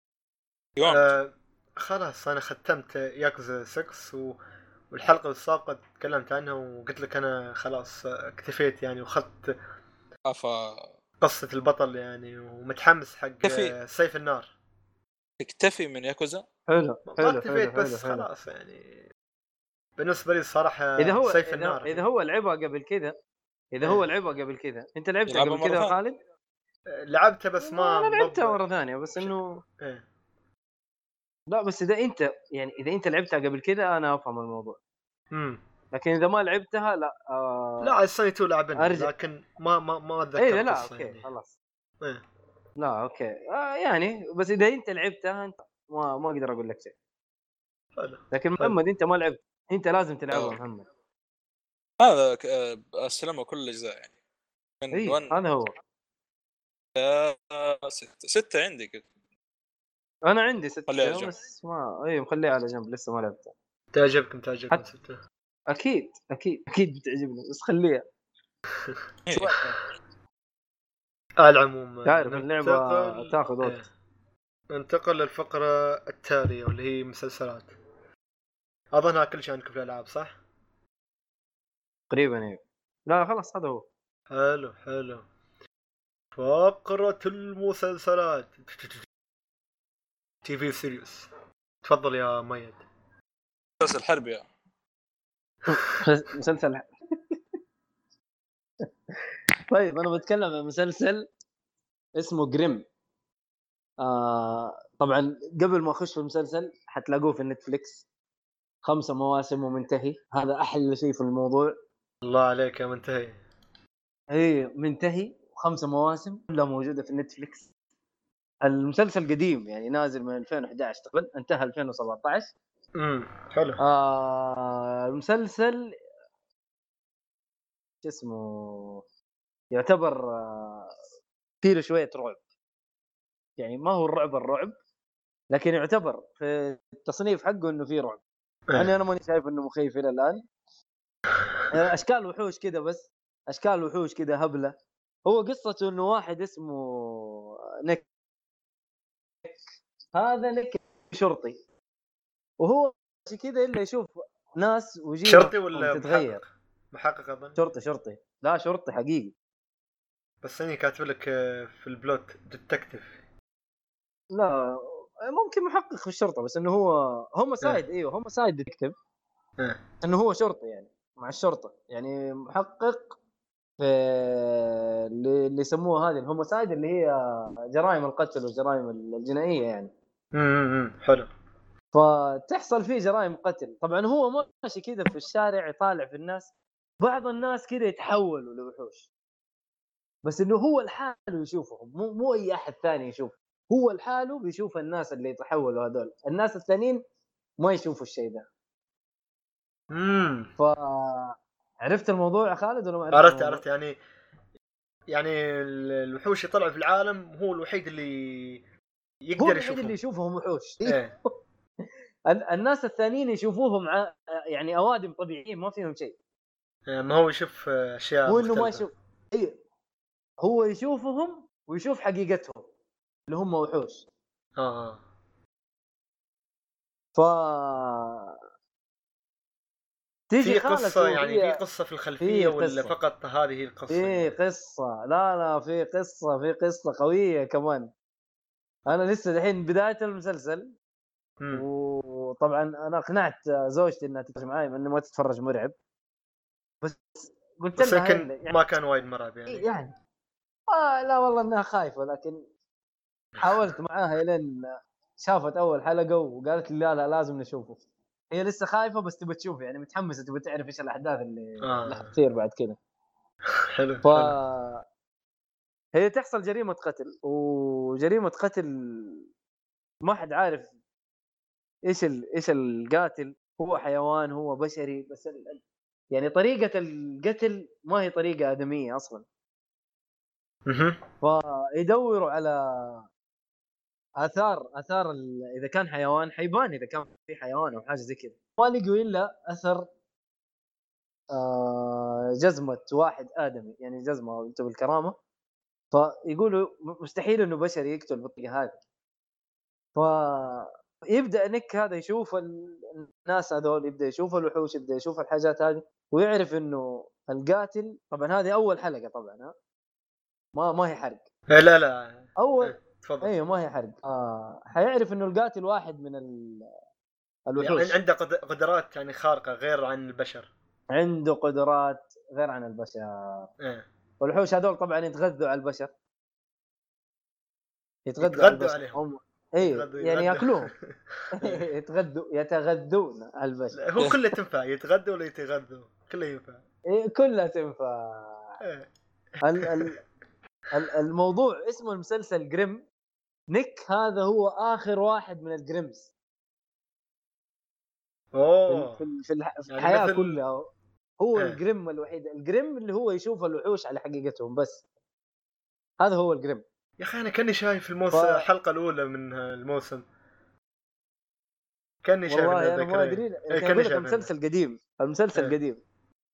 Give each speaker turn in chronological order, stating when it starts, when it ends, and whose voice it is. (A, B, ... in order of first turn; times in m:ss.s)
0:00.8-0:01.2 A
0:00.9-0:04.4 B
0:04.9-0:09.5 B
0:10.3-0:10.9 A
0:11.2-0:14.5 B
0:13.4-0:13.7 A
0:15.4-0:16.4 A
0:16.7-0:18.3 C
0:17.1-0:19.0 B
0:20.0-0:22.0 B
0:21.0-0:23.1 C
0:23.7-0:26.2 C
0:25.3-0:25.9 A
0:26.9-0:28.6 B
0:27.6-0:29.6 C
0:29.2-0:30.0 B
0:31.5-0:34.8 C
0:35.3-0:35.6 B
0:35.9-0:37.9 C
0:37.8-0:41.2 B
0:38.8-0:39.1 C
0:40.4-0:41.5 C
0:42.8-0:46.9 C
0:48.0-0:48.8 B
0:48.3-0:50.8 C
0:52.0-0:54.1 A
0:54.8-0:55.3 A
0:54.9-0:55.7 C
0:57.0-0:59.0 A
1:00.2-1:03.5 C
1:00.9-1:01.4 A
1:03.9-1:05.2 B
1:05.7-1:08.0 C
1:09.3-1:09.7 A
1:09.4-1:09.7 C
1:11.4-1:13.8 B
1:12.0-1:13.8 C
1:14.7-1:17.7 B
1:18.9-1:20.3 B
1:22.1-1:23.8 C
1:24.3-1:25.2 B
1:26.4-1:29.0 B
1:30.4-1:31.3 B
1:31.8-1:32.8 B
1:33.8-1:34.4 A
1:35.7-1:37.3 C
1:39.7-1:41.3 C
1:42.2-1:42.8 C
1:44.0-1:48.0 C
1:48.8-1:51.7 C
1:52.2-1:53.4 B
1:54.3-1:57.7 C
1:58.6-2:02.5 C
2:02.9-2:03.8 B
2:03.8-2:05.9 C
2:08.0-2:09.0 C
2:09.7-2:10.9 C
2:11.6-2:12.4 C
2:13.6-2:14.7 C
2:15.5-2:18.2 C
2:18.7-2:20.4 C
2:21.7-2:24.7 C
2:25.2-2:28.0 C
2:30.1-2:31.6 C
2:32.6-2:36.4 C
2:35.2-2:37.6 B
2:37.6-2:39.3 C
2:40.4-2:43.1 B
2:44.3-2:48.9 C
2:50.0-2:53.2 C
2:53.8-2:59.9 C
3:00.3-3:01.3 B
3:01.9-3:06.5 C
3:07.0-3:09.0 C
3:10.2-3:17.0 C
3:17.6-3:18.4 C
3:19.9-3:20.5 B
3:20.6-3:23.6 C
3:23.1-3:24.0 B
3:25.1-3:28.6 B
3:29.2-3:29.9 B
3:29.4-3:31.0 C
3:30.8-3:31.1 B
3:32.3-3:36.1 C
3:36.9-3:38.9 B
3:38.3-3:39.5 C
3:40.4-3:42.6 C
3:43.3-3:44.0 C
3:44.6-3:45.0 B
3:47.2-3:48.4 C
3:50.3-3:51.6 C
3:50.4-3:54.3 B
3:52.2-3:52.9 C
3:53.9-3:57.9 C
3:58.9-4:00.7 C
4:01.4-4:01.6 B
4:01.5-4:05.7 C
4:06.8-4:08.6 C
4:07.8-4:09.7 B
4:09.5-4:09.9 C
4:10.7-4:12.4 C
4:13.4-4:17.8 C
4:18.3-4:22.8 C
4:21.6-4:22.0 B
4:23.8-4:24.4 B
4:24.0-4:24.8 C
4:25.9-4:29.3 C
4:30.0-4:30.7 C
4:31.9-4:35.6 C
4:36.1-4:39.2 C
4:40.7-4:41.0 B
4:41.2-4:43.0 C
4:44.2-4:49.9 C
4:51.3-4:55.2 C
4:55.9-4:58.8 C
4:59.9-5:09.5 C
5:10.5-5:11.2 C
5:11.5-5:13.3 B
5:12.4-5:16.7 C
5:17.5-5:18.0 C
5:17.6-5:20.5 B
5:20.9-5:23.5 C
5:24.2-5:25.9 C
5:28.1-5:30.7 C
5:28.2-5:29.0 B
5:29.6-5:31.6 B
5:31.3-5:33.8 C
5:33.8-5:36.6 B
5:36.9-5:38.6 C
5:39.4-5:40.0 C
5:39.6-5:39.9 B
5:40.7-5:42.8 C
5:43.5-5:46.1 C
5:48.3-5:49.0 B
5:48.7-5:50.7 C
5:49.7-5:50.4 B
5:51.2-5:54.8 C
5:56.0-5:56.6 C
5:57.0-6:00.0 B
5:58.1-5:58.4 C
6:02.0-6:04.3 B
6:02.3-6:05.8 C